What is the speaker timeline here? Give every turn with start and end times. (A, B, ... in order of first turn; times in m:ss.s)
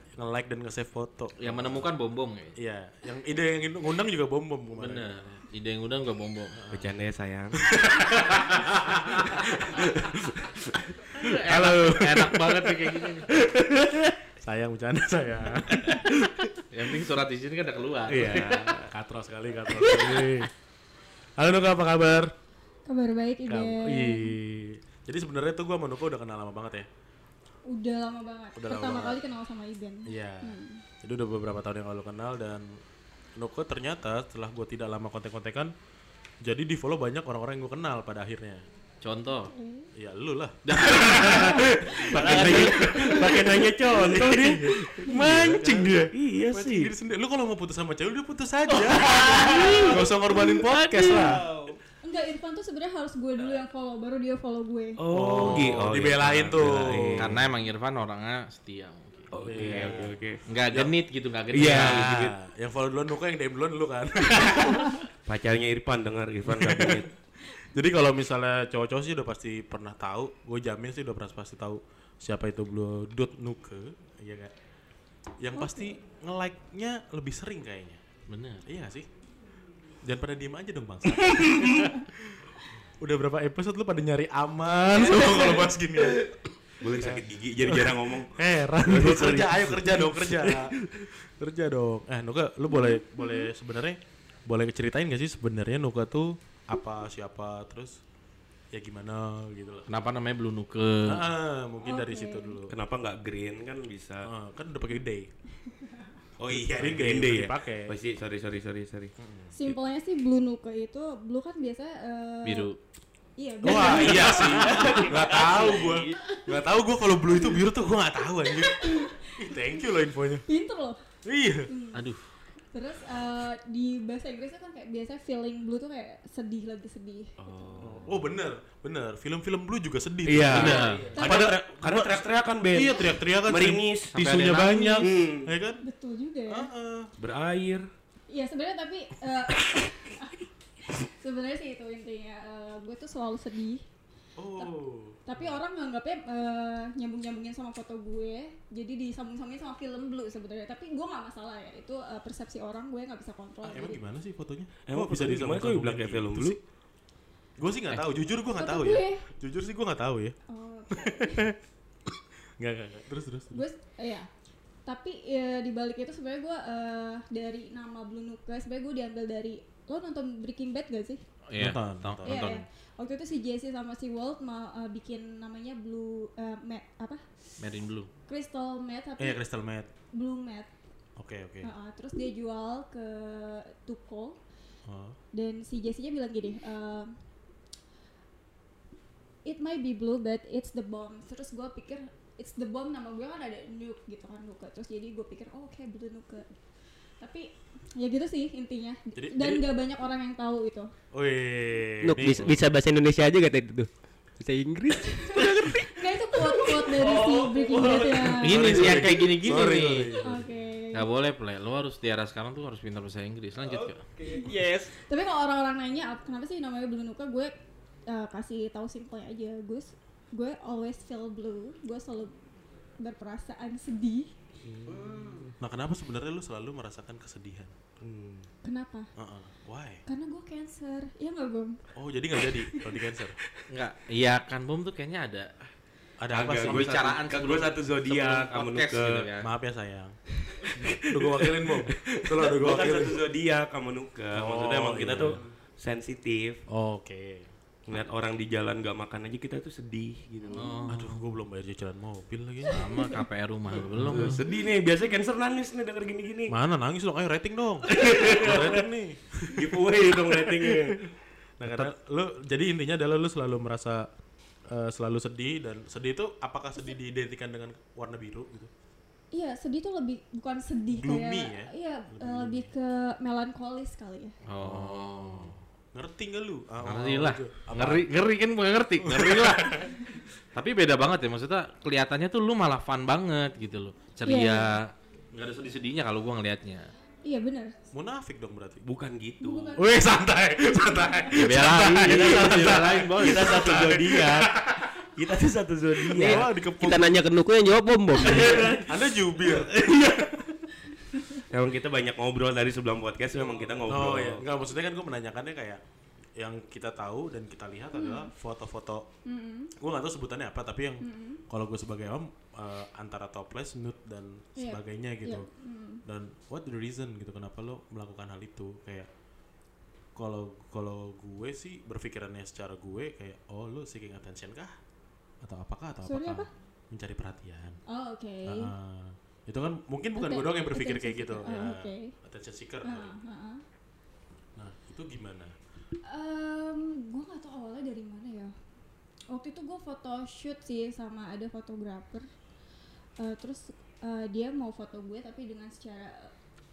0:00.2-0:01.9 A
0:01.4-0:02.6 B
0:02.6-0:05.1 A
0:04.8-0:06.6 B
0:06.6-0:06.9 A
0:06.7-0:07.6 C
0:07.6-0:09.9 A
0:09.5-0:10.9 C
0:11.2-0:13.3 B
0:11.2-0:13.8 A
0:14.4-0:16.6 A
0:16.7-0:18.6 B
0:18.1-0:18.9 C
0:18.1-0:20.5 A
0:21.4-0:22.3 A
0:22.9-0:24.4 D
0:23.5-0:26.9 A
0:27.7-0:30.8 D
0:28.6-0:29.2 A
0:30.1-0:32.8 A
0:33.4-0:35.7 A
0:36.4-0:38.6 A
0:39.0-0:39.5 B
0:39.5-0:39.9 D
0:40.0-0:51.5 A
0:40.7-0:41.7 B
0:41.0-0:46.9 C
0:42.0-0:43.3 E
0:48.8-0:50.0 E
0:49.4-0:50.0 C
0:50.7-0:51.8 E
0:52.0-0:55.0 D
0:55.0-0:57.5 C
0:55.1-0:57.4 A
0:57.2-1:02.3 B
0:59.3-1:00.4 C
0:59.5-1:00.2 A
1:01.5-1:02.3 C
1:01.8-1:05.0 A
1:05.3-1:07.1 C
1:06.5-1:14.5 A
1:15.4-1:18.0 A
1:15.6-1:15.9 D
1:18.3-1:18.6 B
1:18.6-1:19.1 A
1:20.0-1:22.4 A
1:21.3-1:21.8 C
1:23.0-1:38.0 A
1:25.2-1:25.6 D
1:26.8-1:31.1 C
1:32.7-1:33.5 D
1:38.7-1:39.9 A
1:39.9-1:41.2 B
1:41.1-1:42.8 A
1:41.8-1:42.6 D
1:42.7-1:44.3 C
1:44.2-1:45.3 A
1:46.4-1:49.1 C
1:46.5-1:47.9 A
1:49.2-1:49.5 A
1:49.6-1:52.7 D
1:52.4-1:52.8 B
1:53.4-1:54.4 D
1:53.6-2:00.4 A
1:53.7-1:56.1 E
1:54.1-1:54.9 C
1:54.2-1:55.0 B
1:58.6-1:59.7 D
2:00.5-2:01.0 D
2:01.2-2:01.7 A
2:01.7-2:02.1 D
2:01.9-2:02.2 B
2:02.6-2:07.8 D
2:07.4-2:08.2 C
2:07.8-2:15.8 A
2:10.2-2:14.1 C
2:10.5-2:11.2 B
2:10.7-2:11.0 E
2:11.1-2:11.5 D
2:14.1-2:15.2 B
2:15.0-2:15.5 C
2:15.8-2:16.7 D
2:16.5-2:17.1 A
2:17.2-2:17.9 C
2:18.3-2:20.4 D
2:21.1-2:23.8 D
2:24.4-2:25.5 A
2:25.2-2:34.0 D
2:33.6-2:36.6 A
2:34.9-2:36.6 C
2:37.6-2:40.4 A
2:38.6-2:39.3 D
2:40.5-2:41.5 D
2:41.1-2:41.6 A
2:42.6-2:43.6 A
2:43.5-2:44.3 D
2:44.8-2:51.2 D
2:51.5-2:52.6 B
2:51.6-2:52.6 A
2:52.2-2:57.2 D
2:57.6-2:58.1 B
2:58.3-2:59.4 D
2:59.2-2:59.9 A
3:00.1-3:00.7 D
3:01.2-3:01.7 A
3:01.6-3:04.4 D
3:04.9-3:05.2 A
3:05.3-3:07.2 D
3:09.4-3:16.6 D
3:17.2-3:20.9 D
3:19.2-3:19.6 A
3:21.1-3:22.6 A
3:22.0-3:28.4 E
3:25.4-3:29.0 D
3:28.4-3:30.4 A
3:28.4-3:30.3 B
3:30.2-3:31.1 D
3:30.9-3:34.0 B
3:33.6-3:34.9 E
3:34.3-3:37.5 D
3:38.1-3:42.3 D
3:43.0-3:44.3 D
3:44.6-3:45.5 C
3:44.9-3:45.5 E
3:45.6-3:47.7 A
3:48.0-3:48.5 C
3:48.6-3:49.1 D
3:49.2-3:50.0 A
3:50.1-3:51.8 D
3:52.0-3:53.4 A
3:53.7-3:55.5 B
3:56.2-3:57.2 A
3:56.3-3:59.3 C
3:56.6-3:59.5 B
3:59.4-4:03.2 A
4:01.0-4:06.6 C
4:04.3-4:05.4 A
4:06.7-4:07.5 A
4:07.9-4:10.8 C
4:10.5-4:11.2 B
4:10.9-4:13.1 A
4:12.7-4:14.4 B
4:12.7-4:13.0 D
4:13.9-4:14.4 A
4:14.0-4:16.5 C
4:16.5-4:20.7 A
4:17.9-4:18.8 C
4:19.5-4:21.0 C
4:21.6-4:24.1 A
4:24.7-4:28.7 A
4:29.3-4:34.4 D
4:30.9-4:32.7 A
4:34.4-4:35.6 B
4:34.6-4:38.1 A
4:36.8-4:39.9 B
4:39.0-4:40.0 A
4:40.5-4:46.9 B
4:44.3-4:44.7 D
4:47.2-4:47.8 D
4:47.9-4:48.8 A
4:48.8-4:49.8 C
4:49.4-4:50.0 D
4:49.8-4:54.8 A
4:51.3-4:53.6 B
4:52.0-4:54.5 C
4:55.2-4:56.5 C
4:56.1-4:58.7 E
4:56.2-4:57.2 A
4:58.2-5:00.3 C
4:58.8-5:00.4 A
5:01.5-5:04.4 C
5:03.9-5:05.8 A
5:06.4-5:09.1 A
5:07.9-5:08.3 D
5:09.3-5:09.7 D
5:09.8-5:15.5 A
5:11.0-5:11.4 D
5:14.6-5:16.0 D
5:16.0-5:19.1 A
5:20.2-5:24.8 A
5:25.4-5:27.8 A
5:26.0-5:26.5 D
5:27.9-5:28.7 D
5:28.4-5:33.2 A
5:30.2-5:32.1 D
5:32.8-5:33.6 D
5:34.6-5:35.6 A
5:36.1-5:38.6 D
5:39.3-5:42.3 D
5:43.2-5:46.3 D